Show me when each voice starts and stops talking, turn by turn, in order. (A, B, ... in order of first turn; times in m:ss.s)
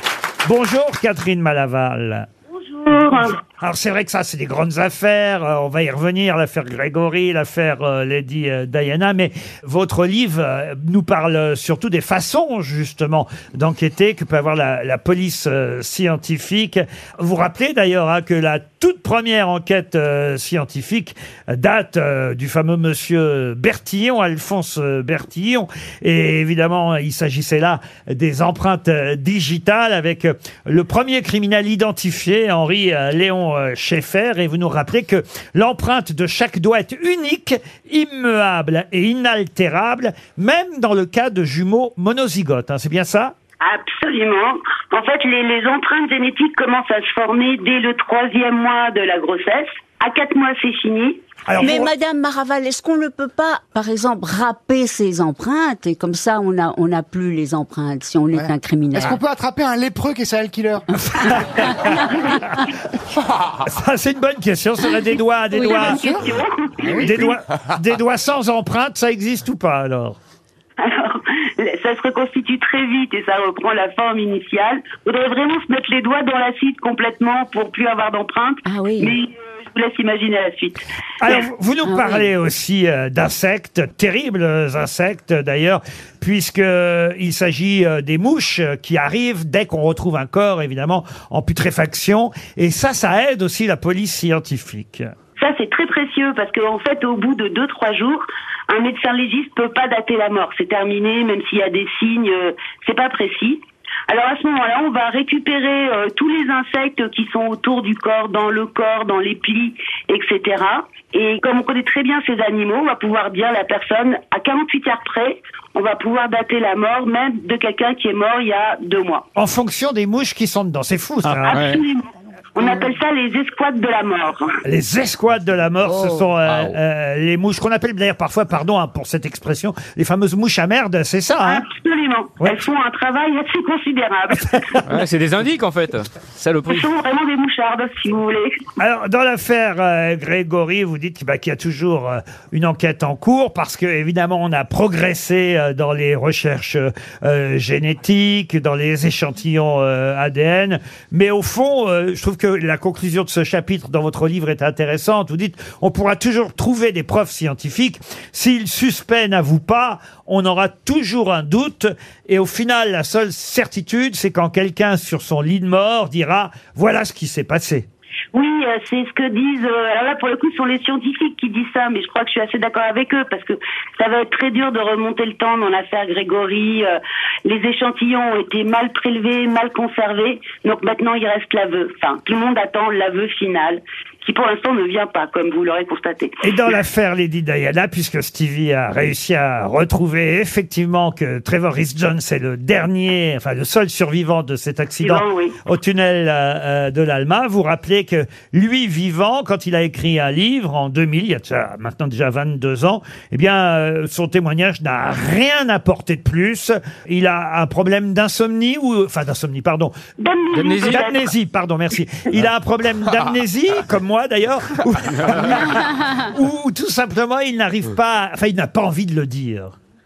0:00.4-0:02.3 A
0:02.8-0:03.4 B
0:02.9-0:43.3 A
0:43.6-0:51.2 B
0:51.5-0:51.9 A
0:51.6-0:59.2 C
0:58.3-1:00.8 D
1:01.1-1:02.7 A
1:01.2-1:02.0 C
1:03.6-1:06.3 A
1:05.5-1:07.3 B
1:05.6-1:06.2 D
1:06.8-1:07.2 D
1:06.8-1:10.2 A
1:10.8-1:20.8 B
1:18.6-1:19.2 C
1:21.2-1:35.1 A
1:21.8-1:22.3 C
1:35.4-1:59.2 B
1:59.3-2:01.7 A
2:01.2-2:01.8 E
2:01.5-2:04.6 B
2:04.6-2:11.6 A
2:06.4-2:06.8 E
2:11.4-2:14.8 B
2:12.4-2:12.6 A
2:14.3-2:14.8 A
2:14.8-2:16.9 E
2:16.6-2:18.6 B
2:18.8-2:47.9 A
2:48.3-3:06.4 B
3:06.4-3:29.9 A
3:15.0-3:15.6 B
3:30.2-3:31.2 B
3:30.5-3:31.1 E
3:30.8-3:39.7 A